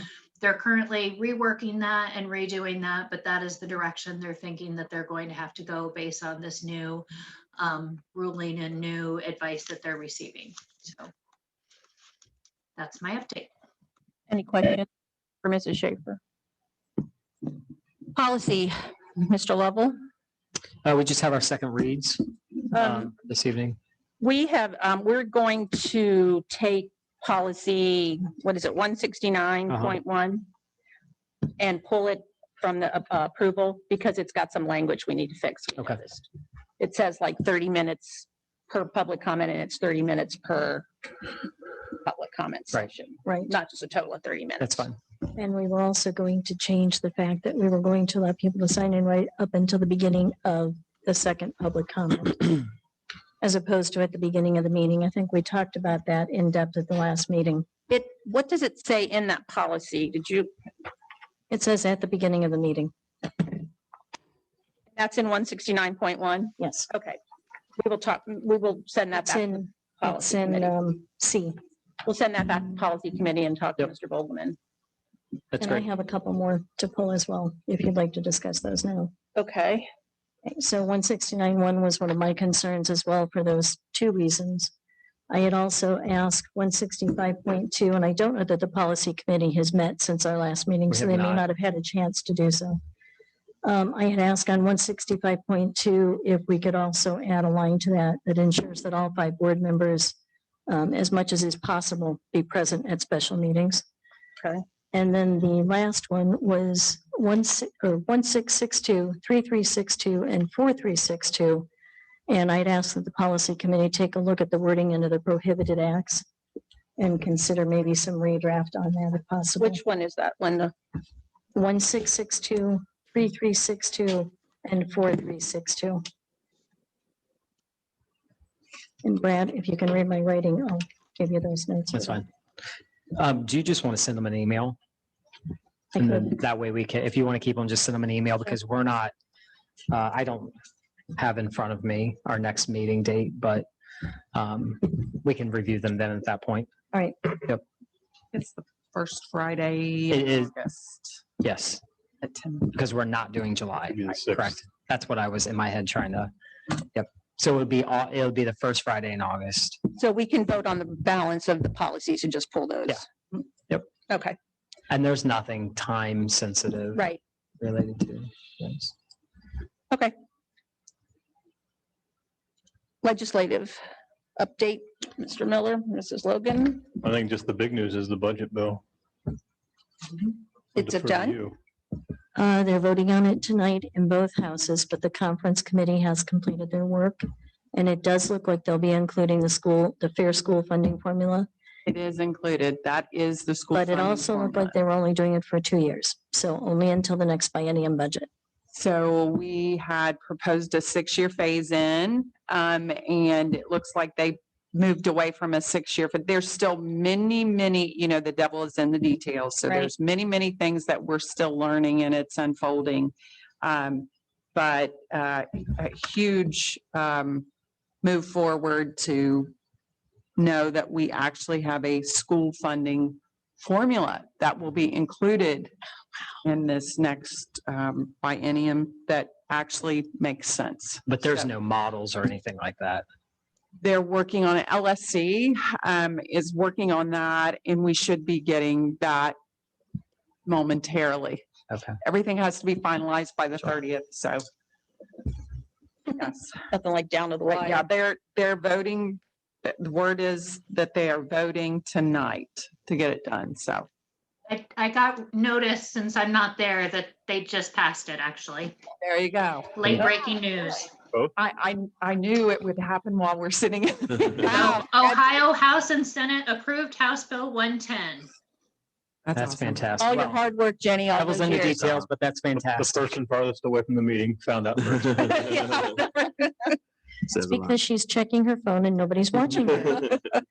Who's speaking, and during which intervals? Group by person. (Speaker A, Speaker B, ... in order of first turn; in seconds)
Speaker A: 0.4-7.0, 7.6-11.1, 12.8-13.5, 254.5-258.8, 259.7-260.9, 264.4-268.3
Speaker B: 14.3-14.9, 15.4-16.2, 18.1-19.9, 22.7-23.1, 24.2-30.5, 31.6-36.2, 36.8-40.9, 42.0-44.9, 57.9-60.5, 65.0-67.2, 67.8-70.7, 72.0-74.6, 79.3-79.9, 119.6-120.7, 159.9-163.0, 164.1-164.3, 166.9-167.2, 173.0-173.8, 174.4-176.9, 180.8-181.4, 209.7-209.9, 246.7-247.8, 270.0-271.9, 276.2-276.5
Speaker C: 20.8-23.8, 29.7-30.0, 44.6-45.0, 75.5-75.8, 90.9-91.4, 131.9-132.3, 133.1-134.8, 135.9-139.1, 139.9-140.5, 141.1-143.7, 144.3-146.7, 150.1-150.5, 151.4-151.8, 152.7-159.8, 164.9-168.9, 231.1-233.0, 241.7-241.9, 269.3-270.4, 271.1-273.1
Speaker D: 43.2-43.5, 45.3-52.6, 53.4-57.7, 61.5-63.5, 66.6-66.9, 69.1-71.5, 75.6-79.1, 80.4-84.7, 85.3-92.8, 93.6-100.1, 100.7-103.8, 104.9-111.7, 112.3-116.2, 117.0-119.8, 121.5-126.0, 129.0-132.2, 135.9-136.3, 146.9-147.2, 182.3-187.2, 187.7-191.5, 193.7-198.3, 277.3-280.0
Speaker E: 148.3-151.2, 152.2-152.7, 191.9-194.7, 198.7-217.4, 218.0-219.5, 220.4-225.7, 226.4-231.0, 233.8-239.3, 240.4-241.4, 242.0-244.4, 246.2-246.6, 247.5-253.9, 259.0-259.7, 261.4-265.2, 269.3-269.9
Speaker F: 153.9-154.6, 177.0-178.8, 180.7-181.6, 264.4-264.7, 272.6-275.9